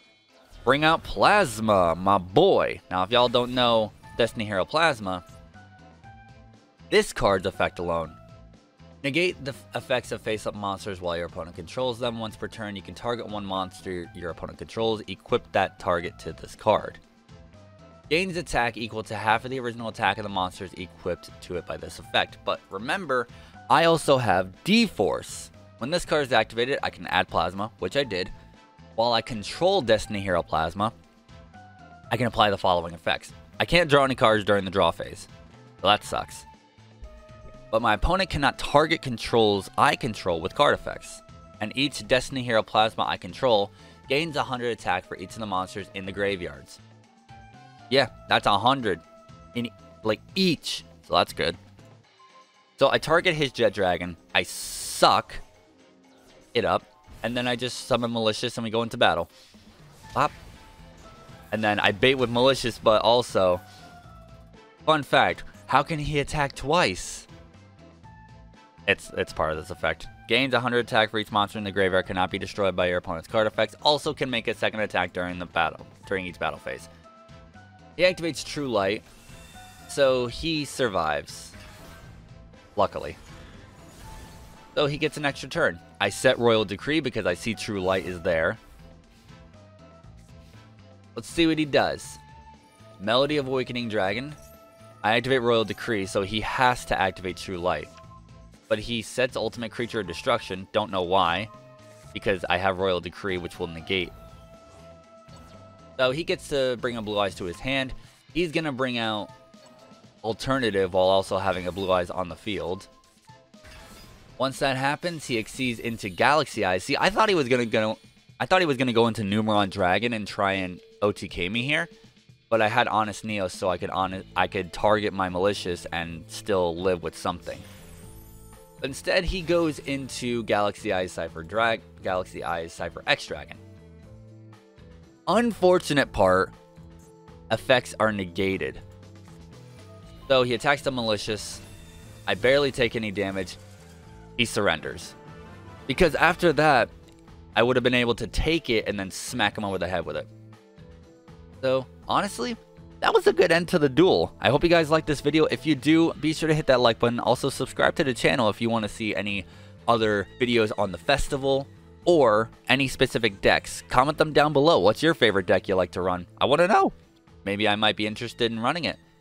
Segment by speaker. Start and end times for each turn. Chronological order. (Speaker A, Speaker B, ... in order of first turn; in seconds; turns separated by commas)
Speaker A: 0.7-5.2, Speaker A: 6.9-8.2, Speaker A: 9.0-17.0, Speaker A: 18.1-28.3, Speaker A: 29.0-30.9, Speaker A: 32.1-35.3, Speaker A: 35.8-36.5, Speaker A: 37.7-46.8, Speaker A: 47.9-49.0, Speaker A: 49.5-51.6, Speaker A: 52.8-55.4, Speaker A: 56.5-59.3, Speaker A: 61.5-63.6, Speaker A: 64.8-67.3, Speaker A: 68.9-76.9, Speaker A: 78.0-79.0, Speaker A: 79.9-81.5, Speaker A: 82.8-83.2, Speaker A: 84.7-88.6, Speaker A: 91.2-92.2, Speaker A: 93.0-94.4, Speaker A: 95.0-97.9, Speaker A: 98.7-101.5, Speaker A: 102.1-104.1, Speaker A: 106.0-109.3, Speaker A: 110.2-112.9, Speaker A: 114.4-121.9, Speaker A: 122.5-127.7, Speaker A: 128.8-133.6, Speaker A: 135.3-136.5, Speaker A: 137.5-138.8, Speaker A: 140.3-141.6, Speaker A: 142.3-143.6, Speaker A: 144.4-145.2, Speaker A: 145.9-146.9, Speaker A: 147.6-150.3, Speaker A: 151.6-169.0